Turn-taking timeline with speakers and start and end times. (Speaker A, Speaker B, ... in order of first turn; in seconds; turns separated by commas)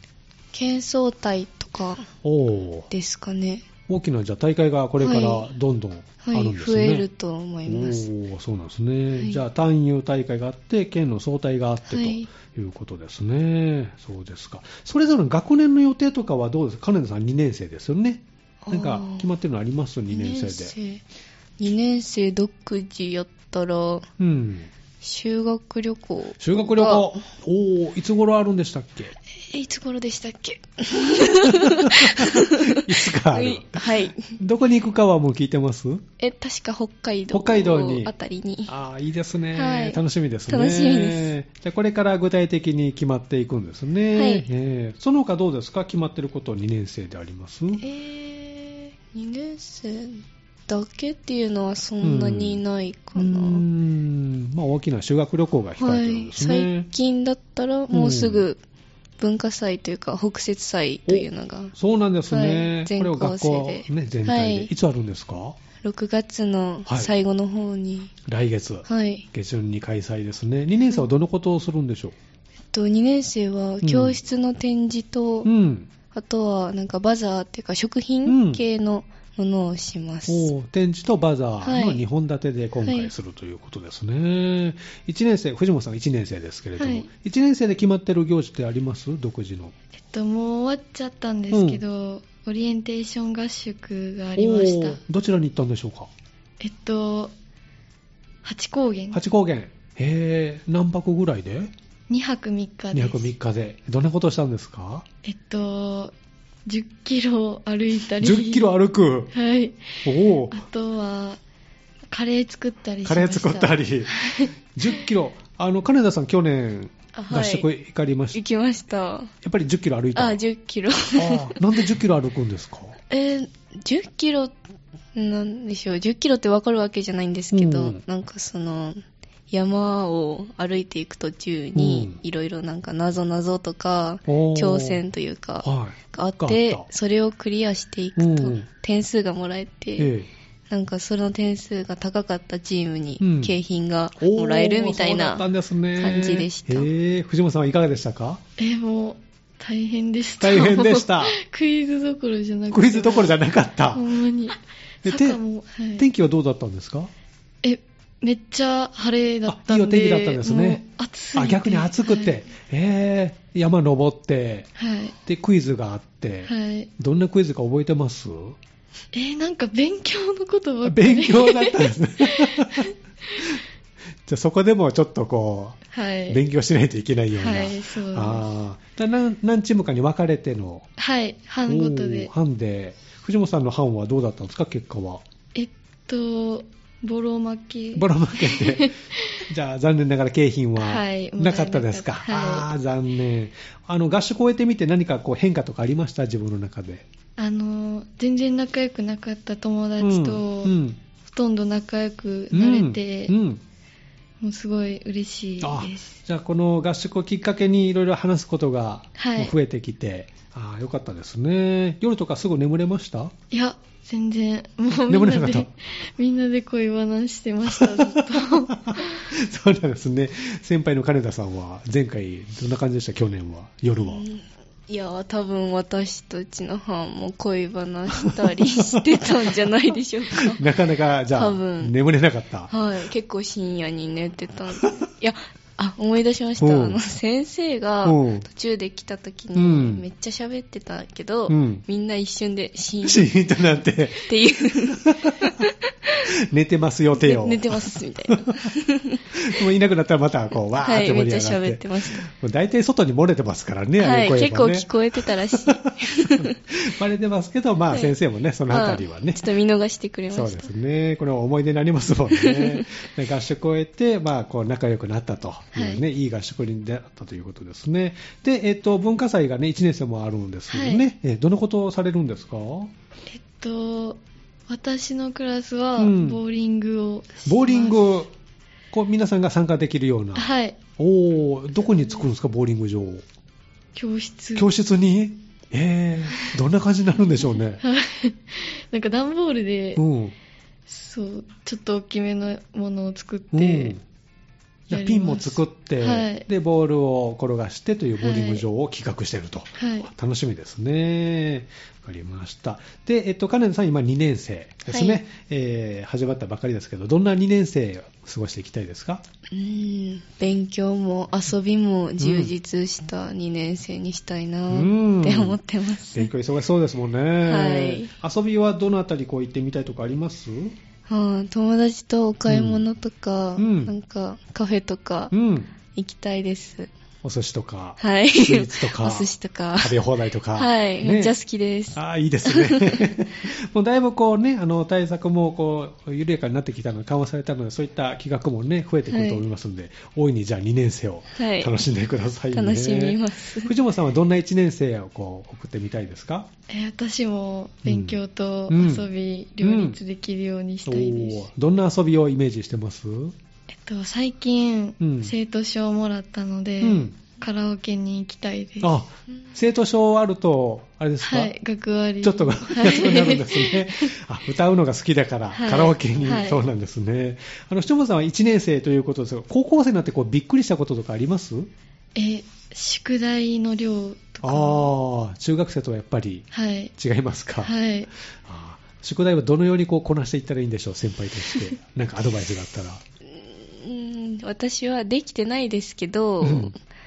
Speaker A: 0.5-2.1, Speaker B: 2.2-2.9, Speaker A: 2.9-3.6, Speaker B: 3.9-7.0, Speaker A: 5.0-5.5, Speaker A: 6.2-8.1, Speaker B: 7.7-20.7, Speaker A: 9.2-9.4, Speaker A: 11.9-12.3, Speaker A: 18.6-19.3, Speaker A: 20.1-21.0, Speaker A: 21.6-24.1, Speaker B: 24.2-24.7, Speaker A: 25.0-27.2, Speaker B: 26.4-29.1, Speaker A: 29.5-34.4, Speaker B: 31.4-36.0, Speaker A: 36.2-38.7, Speaker B: 37.3-38.1, Speaker B: 38.7-47.8, Speaker A: 39.5-41.3, Speaker A: 44.1-44.5, Speaker A: 47.8-53.6, Speaker B: 52.0-52.6, Speaker B: 53.1-56.9, Speaker A: 55.8-58.6, Speaker B: 57.9-58.5, Speaker A: 59.2-61.7, Speaker B: 61.1-65.6, Speaker A: 62.3-64.7, Speaker A: 65.8-68.1, Speaker B: 66.9-67.1, Speaker B: 68.2-72.1, Speaker A: 68.9-69.3, Speaker A: 72.7-75.5, Speaker B: 73.8-74.2, Speaker B: 75.4-75.9, Speaker A: 76.1-80.5, Speaker B: 78.2-78.6, Speaker B: 80.3-89.7, Speaker A: 81.6-82.0, Speaker A: 82.8-83.1, Speaker C: 86.8-87.1, Speaker C: 90.0-95.0, Speaker B: 91.5-91.8, Speaker B: 94.4-96.1, Speaker C: 96.6-97.3, Speaker C: 98.4-99.2, Speaker B: 99.1-101.7, Speaker C: 102.1-103.3, Speaker B: 102.9-105.0, Speaker C: 105.2-106.1, Speaker C: 106.7-108.7, Speaker B: 108.2-109.3, Speaker C: 109.3-111.4, Speaker B: 110.0-110.6, Speaker C: 112.1-114.5, Speaker B: 113.0-114.2, Speaker B: 114.7-118.4, Speaker A: 117.1-117.7, Speaker A: 118.3-119.3, Speaker B: 119.4-120.4, Speaker A: 120.1-121.8, Speaker B: 121.1-123.0, Speaker A: 123.1-124.5, Speaker A: 125.1-140.1, Speaker B: 127.5-128.0, Speaker B: 131.8-132.2, Speaker B: 134.3-135.0, Speaker B: 135.6-136.9, Speaker B: 138.2-138.7, Speaker B: 140.0-140.3, Speaker A: 140.7-145.4, Speaker B: 143.2-143.6, Speaker B: 144.2-148.4, Speaker A: 146.0-146.9, Speaker C: 148.6-153.4, Speaker B: 150.4-151.4, Speaker B: 152.7-154.1, Speaker C: 153.9-156.1, Speaker B: 155.0-155.4, Speaker B: 156.0-157.1, Speaker C: 157.6-162.4, Speaker B: 159.4-160.8, Speaker B: 161.3-164.7, Speaker C: 164.8-165.1, Speaker B: 165.2-168.6, Speaker C: 166.4-166.9, Speaker C: 169.1-172.9, Speaker B: 170.8-173.6, Speaker B: 174.2-180.9, Speaker C: 175.9-176.4, Speaker C: 177.3-178.4, Speaker C: 181.0-182.3, Speaker B: 181.7-185.2, Speaker C: 185.6-189.4, Speaker B: 187.9-188.9, Speaker B: 189.5-197.1, Speaker C: 190.8-192.7, Speaker C: 197.4-203.3, Speaker B: 200.0-201.0, Speaker B: 202.5-203.6, Speaker C: 204.4-206.2, Speaker B: 205.6-213.3, Speaker C: 209.2-209.5, Speaker C: 213.5-219.2, Speaker B: 215.1-215.7, Speaker B: 217.7-224.2, Speaker A: 224.0-230.6, Speaker B: 228.2-229.6, Speaker B: 230.4-232.7, Speaker A: 231.3-231.9, Speaker A: 232.7-243.3, Speaker B: 236.6-237.0, Speaker B: 238.0-238.4, Speaker B: 239.6-240.0, Speaker B: 241.5-241.8, Speaker B: 243.0-244.3, Speaker A: 244.2-246.2, Speaker B: 244.9-245.6, Speaker B: 246.5-248.7, Speaker A: 247.2-249.6, Speaker B: 249.3-259.4, Speaker A: 250.8-252.2, Speaker A: 254.0-256.5, Speaker A: 257.9-258.1, Speaker A: 258.7-260.7, Speaker B: 260.3-272.9, Speaker A: 262.3-262.8, Speaker C: 265.7-266.0, Speaker C: 270.7-271.1, Speaker C: 273.3-278.0, Speaker B: 276.0-276.4, Speaker B: 277.4-278.3, Speaker B: 278.9-283.2, Speaker C: 280.4-280.8, Speaker C: 283.9-284.7, Speaker B: 284.6-287.8, Speaker C: 287.8-290.0, Speaker B: 289.9-290.4, Speaker C: 290.9-293.9, Speaker B: 293.5-294.0, Speaker B: 294.9-309.2, Speaker C: 294.9-296.4, Speaker C: 298.2-298.6, Speaker C: 299.8-300.1, Speaker A: 304.9-305.2, Speaker A: 309.5-316.3, Speaker B: 312.2-312.5, Speaker B: 314.7-315.6, Speaker B: 316.1-320.8, Speaker A: 317.4-318.1, Speaker A: 321.1-325.3, Speaker B: 322.5-322.9, Speaker B: 323.6-323.9, Speaker B: 325.3-325.7, Speaker A: 325.9-326.9, Speaker B: 327.2-331.4, Speaker A: 328.0-330.0, Speaker A: 330.6-333.1, Speaker B: 331.9-346.5, Speaker A: 339.1-339.4, Speaker A: 341.3-341.7, Speaker A: 342.5-343.7, Speaker C: 346.7-351.5, Speaker B: 347.9-348.2, Speaker B: 348.7-349.1, Speaker B: 349.6-350.0, Speaker B: 350.9-353.4, Speaker C: 353.7-358.9, Speaker B: 355.0-355.3, Speaker B: 356.8-357.2, Speaker B: 358.8-361.5, Speaker C: 361.2-364.1, Speaker B: 362.2-371.7, Speaker C: 365.5-366.6, Speaker C: 372.1-374.9, Speaker B: 374.4-377.7, Speaker C: 376.5-376.9, Speaker C: 377.6-378.1, Speaker B: 378.4-383.0, Speaker A: 383.4-386.8, Speaker B: 386.4-386.7